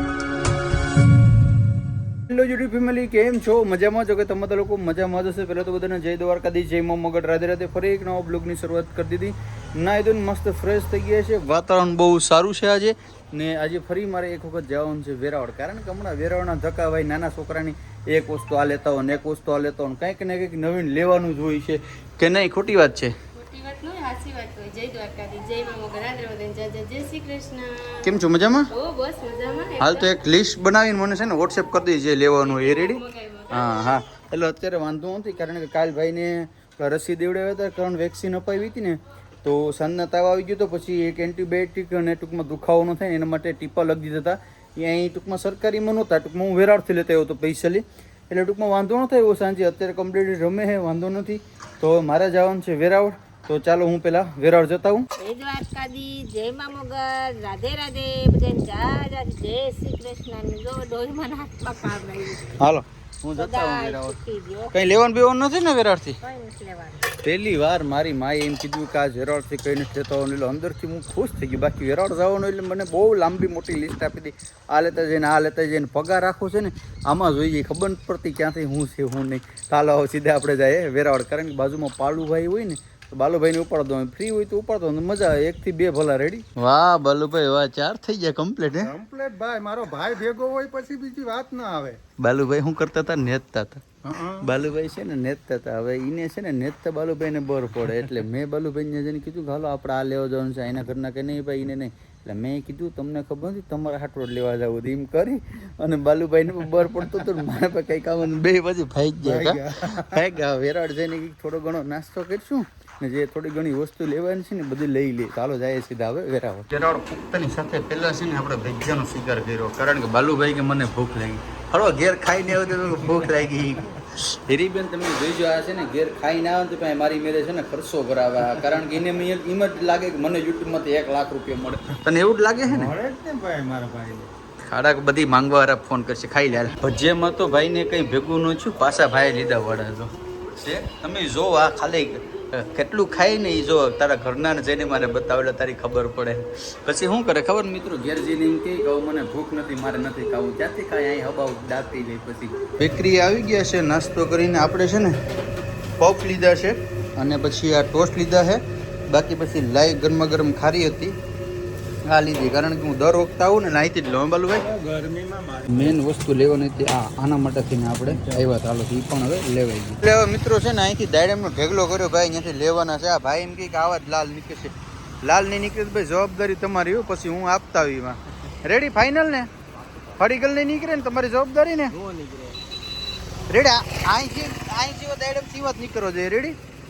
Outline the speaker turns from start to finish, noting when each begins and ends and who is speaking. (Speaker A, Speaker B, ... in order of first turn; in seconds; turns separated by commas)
Speaker A: 2.3-23.1, Speaker B: 23.4-28.2, Speaker A: 28.0-28.7, Speaker B: 28.7-30.2, Speaker A: 29.8-55.1, Speaker B: 32.5-33.9, Speaker C: 55.2-62.6, Speaker A: 62.4-64.2, Speaker C: 63.4-64.8, Speaker A: 64.7-66.2, Speaker C: 66.2-67.1, Speaker A: 67.2-89.0, Speaker D: 88.8-92.0, Speaker A: 92.2-132.9, Speaker D: 94.0-94.5, Speaker D: 109.2-110.2, Speaker D: 132.7-134.3, Speaker A: 134.6-155.2, Speaker A: 156.0-161.2, Speaker A: 162.1-164.7, Speaker D: 164.7-165.9, Speaker A: 165.7-179.5, Speaker A: 180.2-182.1, Speaker D: 182.0-182.6, Speaker A: 183.5-186.6